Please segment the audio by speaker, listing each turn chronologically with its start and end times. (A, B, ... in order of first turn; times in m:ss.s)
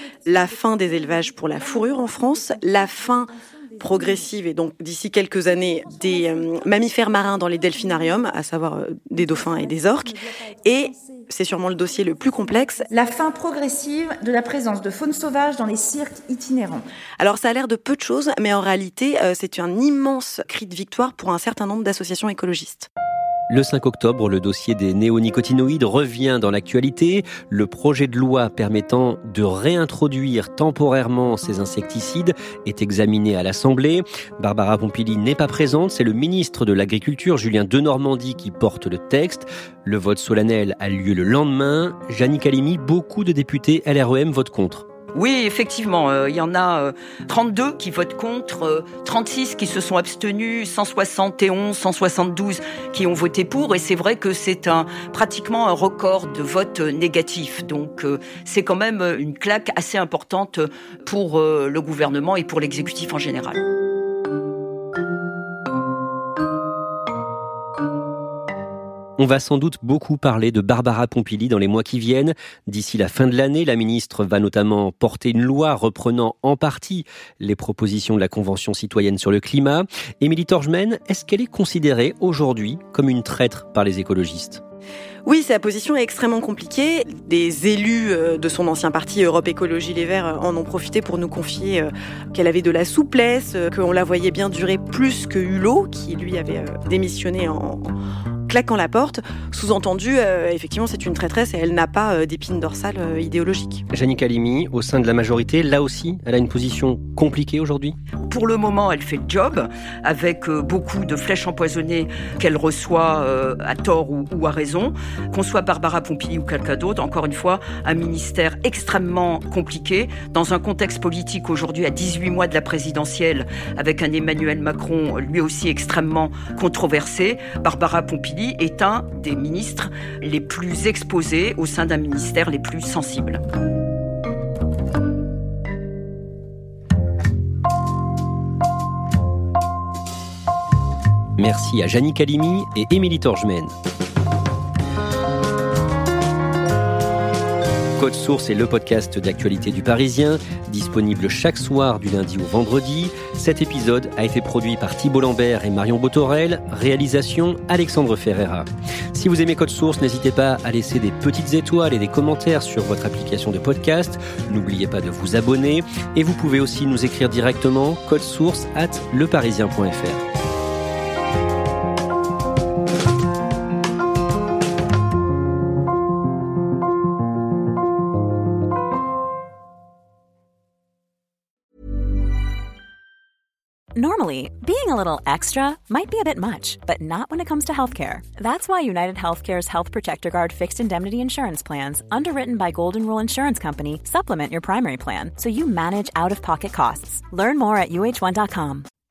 0:00.2-0:12.9 A
0:09.4-0:09.9 B
0:10.9-0:11.2 B
0:12.9-0:16.8 B
0:17.2-0:22.9 A
0:23.5-0:44.8 C
0:45.1-1:03.6 D
1:09.2-1:24.6 C
1:25.2-1:37.9 A
1:38.5-1:43.8 A
1:43.9-1:48.0 C
1:48.2-2:13.4 D
2:21.4-2:23.7 C
2:28.0-2:50.2 C
3:04.0-3:18.9 E